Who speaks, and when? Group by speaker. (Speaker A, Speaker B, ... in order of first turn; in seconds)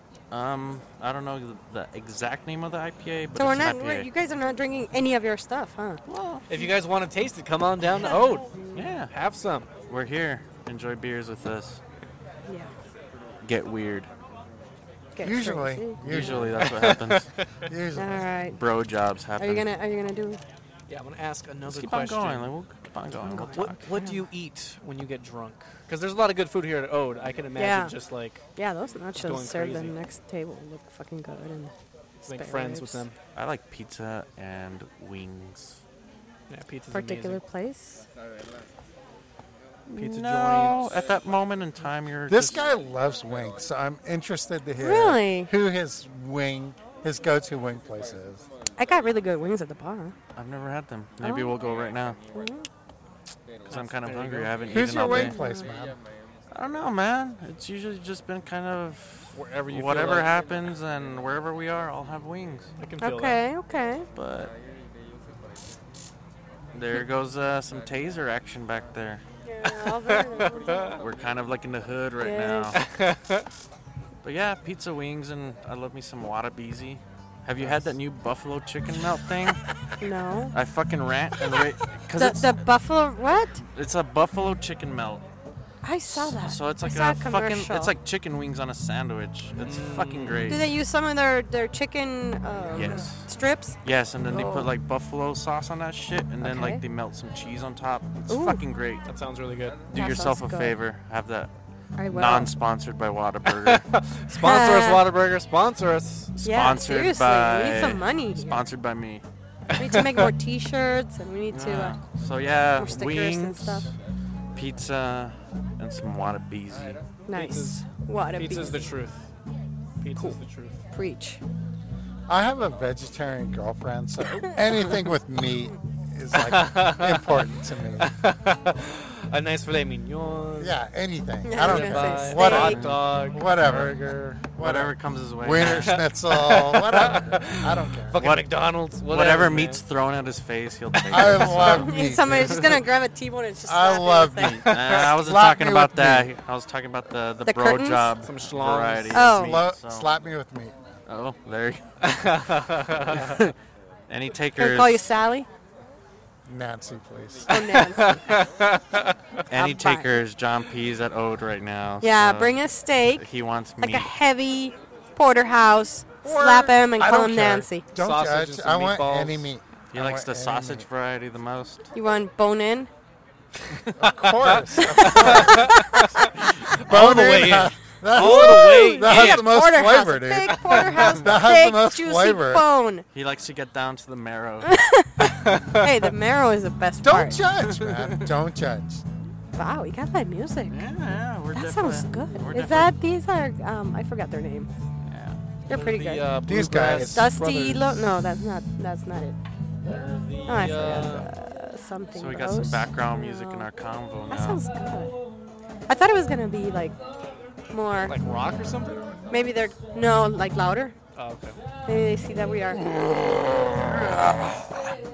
Speaker A: 0.3-4.1, 6.1-6.7, 8.7-9.1, 9.9-11.8, 13.4-14.1, 16.1-17.3, 18.5-19.7, 21.7-23.9, 33.4-35.8, 39.9-42.7, 50.4-52.2, 53.7-55.4, 56.5-62.7, 64.2-64.5, 66.7-69.2, 70.9-72.8, 74.2-79.6, 80.5-82.6, 83.7-85.2, 86.1-90.7, 92.7-93.3, 93.8-99.1, 99.9-101.5, 102.1-103.9, 106.4-109.2, 111.5-113.9, 114.5-117.0, 132.4-133.0, 134.6-136.0, 138.2-141.9, 144.4-150.1, 151.1-152.0, 153.1-153.5, 154.1-155.1, 159.5-162.6, 163.2-164.1, 169.9-171.9, 183.1-184.7, 187.3-188.2, 190.7-192.9, 195.1-195.4, 202.1-204.6, 213.0-214.7
Speaker B: 3.4-6.0, 8.1-8.8, 12.5-12.7, 15.2-16.1, 17.9-18.6, 19.4-20.4, 23.1-24.2, 27.6-27.9, 28.6-31.7, 32.3-33.0, 36.9-38.1, 44.8-45.5, 48.8-50.1, 51.2-51.6, 52.3-52.7, 55.1-55.7, 63.0-64.1, 69.5-71.0, 72.2-72.7, 80.0-80.5, 82.2-83.6, 85.8-87.9, 90.5-93.8, 94.3-94.7, 96.4-96.8, 98.3-98.6, 99.9-100.7, 102.0-102.5, 104.3-105.0, 106.4-108.7, 109.8-112.0, 112.8-113.9, 117.3-118.8, 120.9-121.4, 131.4-132.8, 141.6-144.6, 147.5-148.1, 149.1-149.6, 154.6-155.5, 157.5-158.2, 159.5-160.1, 162.0-163.2, 163.8-167.8, 171.9-172.9, 174.9-176.1, 178.1-183.1, 184.6-187.4, 189.6-190.8, 191.6-194.7, 195.7-196.3, 197.0-199.4, 200.5-203.7, 204.3-205.1, 205.9-207.0, 207.7-208.2, 209.3-210.9, 211.9-212.9
Speaker C: 6.5-8.5, 9.1-9.7, 16.6-17.5, 20.9-22.5, 23.5-28.4, 29.2-29.9, 32.2-33.2, 36.5-37.4, 40.0-41.0, 53.7-54.7, 59.3-60.3, 62.8-63.4, 69.7-71.0, 72.7-73.5, 89.6-90.6, 99.1-99.8, 103.5-106.4, 109.7-110.3, 117.3-119.3, 120.0-120.8, 126.3-130.8, 131.6-134.5, 135.6-139.8, 141.0-141.8, 144.7-145.1, 148.2-149.3, 152.0-153.4, 157.5-159.4, 168.0-169.5, 174.0-179.5, 185.2-185.9, 195.7-198.1, 199.9-201.3, 208.1-209.0, 211.2-211.6
Speaker D: 15.2-16.7, 17.7-18.2, 42.3-48.5, 54.7-56.0, 122.3-128.1, 130.6-138.2, 141.1-142.8, 143.7-146.3, 149.3-151.0, 156.5-157.6, 166.2-170.9, 174.0-175.8, 176.7-182.6, 187.0-189.0, 196.4-197.3